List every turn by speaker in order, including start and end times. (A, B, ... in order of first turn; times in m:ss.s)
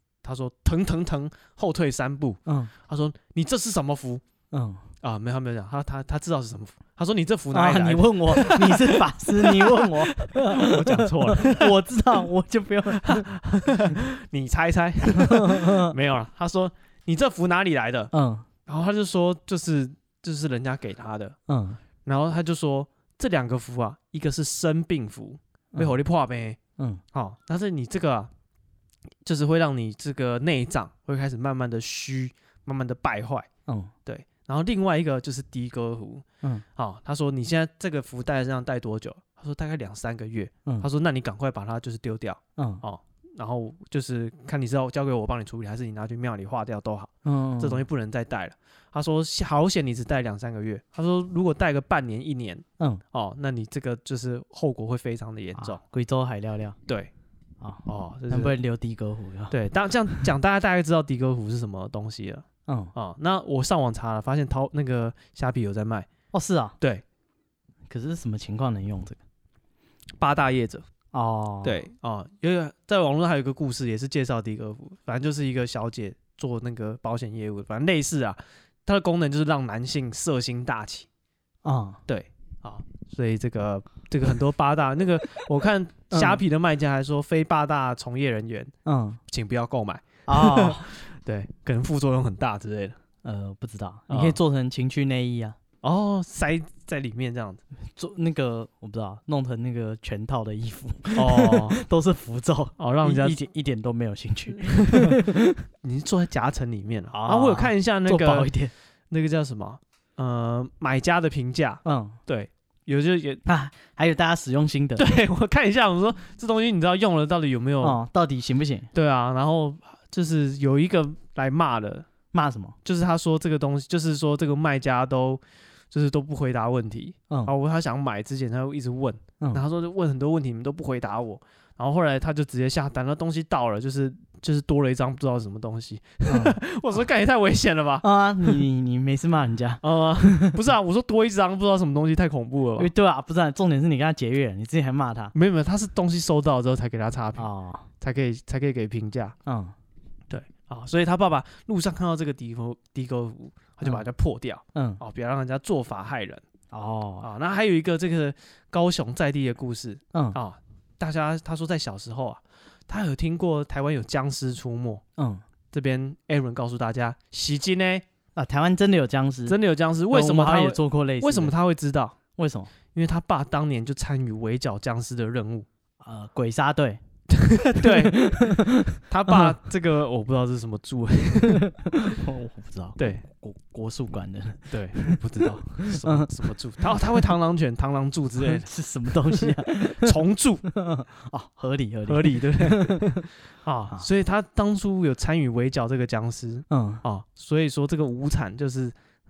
0:00.2-0:04.2 A
0:02.4-0:02.7 B
0:04.5-0:04.8 B
0:05.0-0:11.7 A
0:07.5-0:13.3 B
0:12.9-0:18.1 A
0:15.1-0:15.9 B
0:18.1-0:18.4 B
0:18.6-0:21.3 A
0:21.5-0:21.8 B
0:22.0-0:26.6 A
0:27.1-0:28.3 A
0:29.2-0:33.5 A
0:33.7-0:33.9 B
0:34.0-0:36.2 A
0:36.8-0:55.8 A
0:42.6-0:42.8 B
0:47.2-0:47.8 B
0:55.6-0:56.8 B
0:56.9-0:57.1 A
0:57.6-0:59.6 B
0:57.8-0:58.6 A
0:59.5-1:06.1 A
1:02.7-1:02.9 B
1:06.3-1:06.7 B
1:07.9-1:09.2 B
1:10.2-1:10.8 A
1:11.1-1:11.8 B
1:11.6-1:21.1 A
1:21.6-1:22.0 B
1:22.1-1:28.7 A
1:26.1-1:26.4 B
1:28.8-1:29.2 B
1:29.3-1:33.0 A
1:30.3-1:30.8 B
1:33.2-1:35.6 B
1:34.1-1:34.4 A
1:35.8-1:37.6 A
1:38.0-1:45.6 B
1:41.2-1:41.8 A
1:42.8-1:43.4 A
1:44.6-1:45.2 A
1:45.8-1:48.5 A
1:47.1-1:48.7 B
1:49.1-1:53.4 A
1:51.8-1:52.2 B
1:53.4-1:55.0 B
1:55.0-1:58.0 A
1:57.8-1:58.9 B
1:58.9-2:02.1 A
2:02.3-2:02.8 B
2:02.8-2:18.6 A
2:16.3-2:16.6 B
2:18.0-2:20.6 B
2:19.8-2:22.9 A
2:22.8-2:25.3 B
2:25.3-2:27.4 A
2:27.4-2:27.9 B
2:28.0-2:29.3 A
2:29.4-2:29.7 B
2:30.3-2:36.4 A
2:34.7-2:35.0 B
2:36.7-2:37.3 B
2:37.2-2:45.0 A
2:45.2-2:45.4 B
2:45.7-2:48.0 A
2:48.4-2:49.6 B
2:49.5-2:52.2 A
2:50.1-2:51.5 B
2:52.4-2:52.7 B
2:52.9-2:55.7 A
2:56.0-2:57.0 B
2:57.3-2:58.6 A
2:57.8-2:59.5 B
2:59.1-3:01.6 A
3:01.4-3:07.0 B
3:03.0-3:03.2 A
3:04.7-3:10.6 A
3:08.4-3:10.2 B
3:10.7-3:13.3 B
3:12.1-3:18.9 A
3:16.7-3:17.0 B